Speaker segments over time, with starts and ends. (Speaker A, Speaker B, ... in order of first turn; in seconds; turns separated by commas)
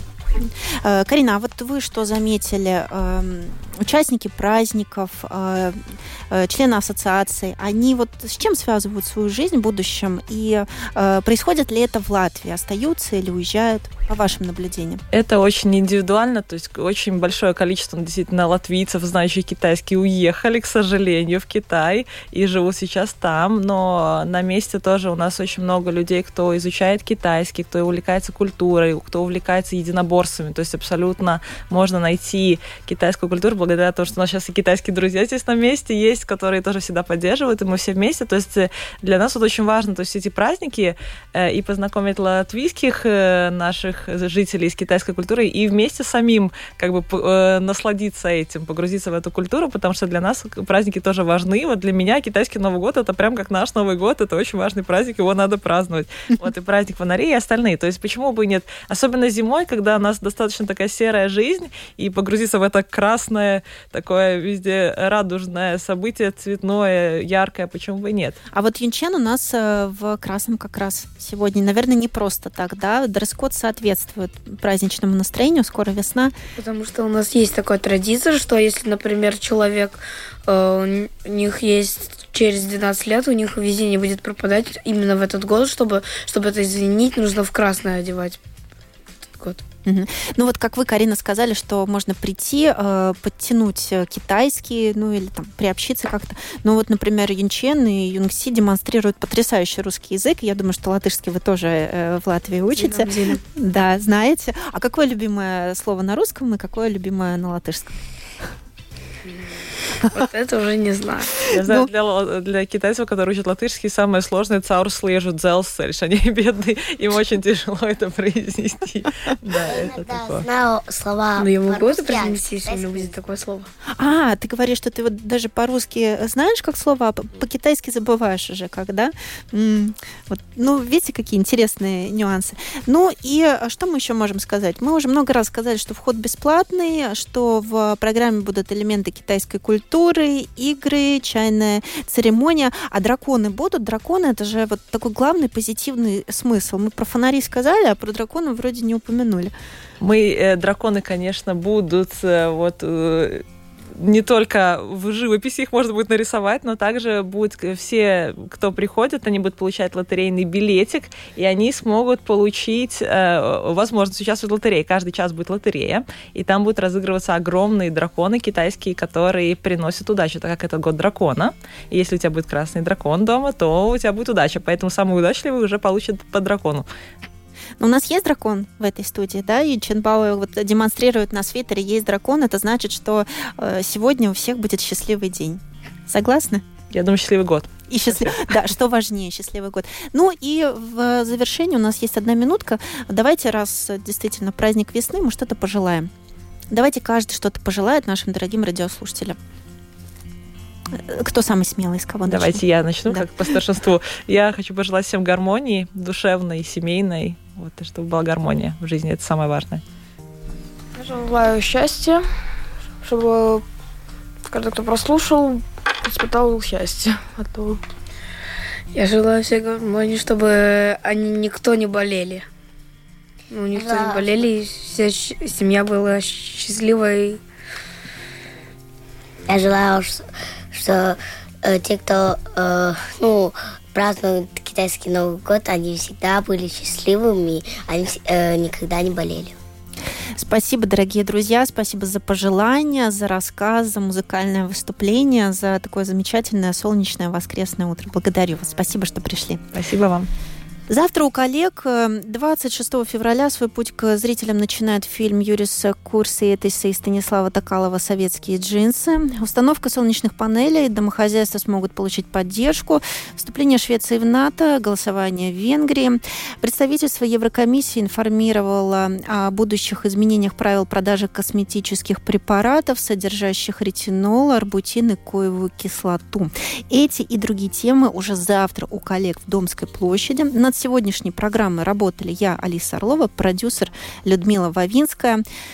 Speaker A: 0.3-15.0, Speaker B: 15.1-68.4, Speaker A: 68.5-76.3, Speaker C: 76.6-88.4, Speaker C: 89.3-89.6, Speaker A: 89.8-108.0, Speaker C: 102.8-103.4, Speaker C: 110.0-111.5, Speaker B: 111.5-120.4, Speaker A: 111.6-111.9, Speaker D: 119.6-123.1, Speaker C: 121.4-123.7, Speaker A: 124.0-149.5, Speaker B: 150.0-153.4, Speaker B: 153.9-176.9, Speaker A: 177.8-186.6, Speaker B: 186.9-188.4, Speaker A: 187.9-196.1, Speaker A: 196.7-199.4, Speaker A: 200.9-203.5, Speaker B: 202.3-209.8, Speaker E: 210.9-212.2, Speaker E: 213.0-213.6, Speaker E: 214.4-217.8, Speaker C: 218.9-222.5, Speaker C: 223.5-227.4, Speaker D: 223.7-224.3, Speaker D: 229.5-239.6, Speaker A: 240.3-249.6, Speaker B: 249.7-250.3, Speaker A: 250.9-285.4